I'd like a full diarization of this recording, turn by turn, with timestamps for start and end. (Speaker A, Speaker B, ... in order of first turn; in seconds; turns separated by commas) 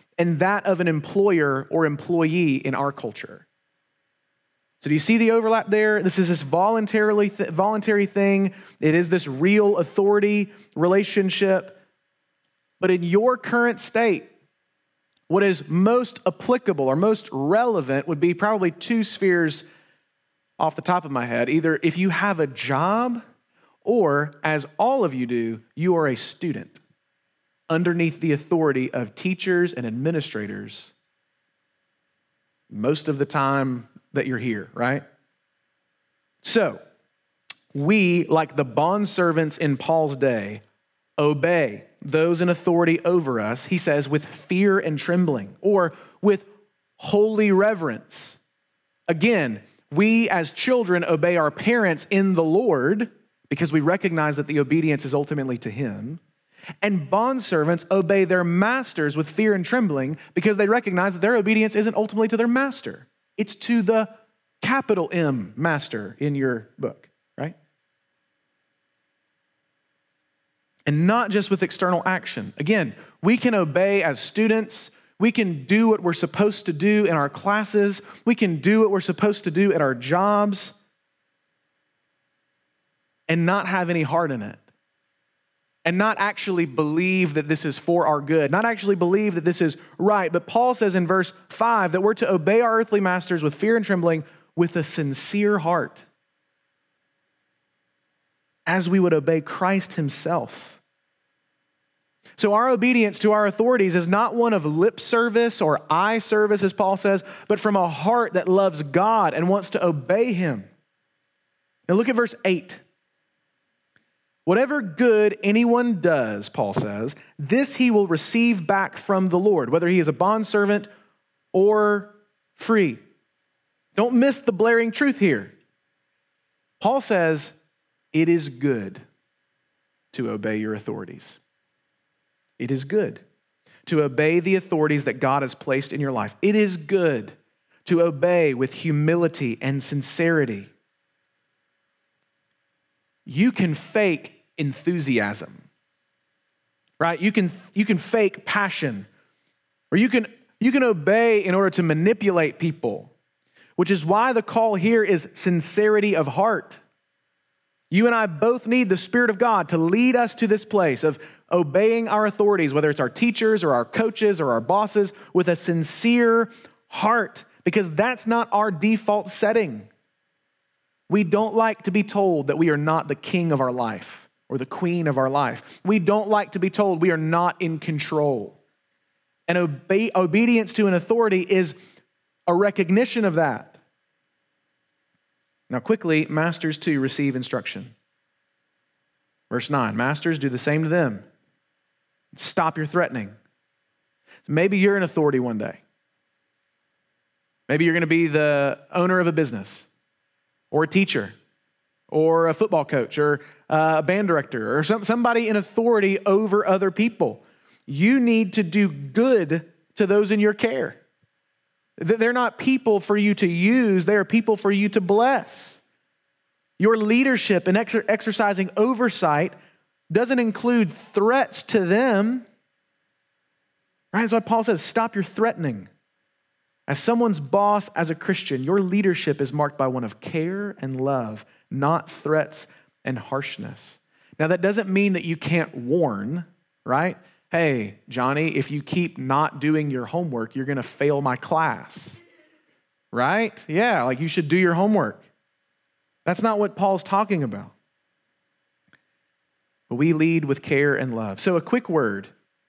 Speaker A: 0.2-3.5, Speaker A: 4.8-11.8, Speaker A: 12.8-14.3, Speaker A: 15.3-19.6, Speaker A: 20.6-23.2, Speaker A: 23.8-26.8, Speaker A: 27.7-30.9, Speaker A: 32.7-35.0, Speaker A: 36.4-36.8, Speaker A: 37.7-40.6, Speaker A: 41.2-46.5, Speaker A: 47.0-48.4, Speaker A: 49.1-56.2, Speaker A: 56.8-64.1, Speaker A: 64.6-67.6, Speaker A: 70.9-80.8, Speaker A: 83.3-84.6, Speaker A: 85.8-96.0, Speaker A: 98.7-100.8, Speaker A: 102.4-110.7, Speaker A: 111.9-112.8, Speaker A: 114.5-120.9, Speaker A: 121.5-123.0, Speaker A: 124.0-125.5, Speaker A: 126.8-127.5, Speaker A: 128.1-129.0, Speaker A: 130.1-131.4, Speaker A: 132.6-133.2, Speaker A: 133.9-137.3, Speaker A: 137.9-140.7, Speaker A: 143.3-145.7, Speaker A: 147.0-149.1, Speaker A: 149.9-153.1, Speaker A: 153.8-156.8, Speaker A: 157.9-169.9, Speaker A: 171.1-178.6, Speaker A: 179.5-181.8, Speaker A: 182.5-183.8, Speaker A: 185.7-187.9, Speaker A: 189.5-191.2, Speaker A: 192.3-193.3, Speaker A: 194.5-195.8, Speaker A: 197.7-199.9, Speaker A: 200.7-201.3, Speaker A: 202.1-211.0, Speaker A: 212.0-215.8, Speaker A: 216.8-219.5, Speaker A: 220.1-222.4, Speaker A: 224.1-225.9, Speaker A: 226.9-242.2, Speaker A: 243.1-245.3, Speaker A: 246.3-247.7, Speaker A: 249.9-252.3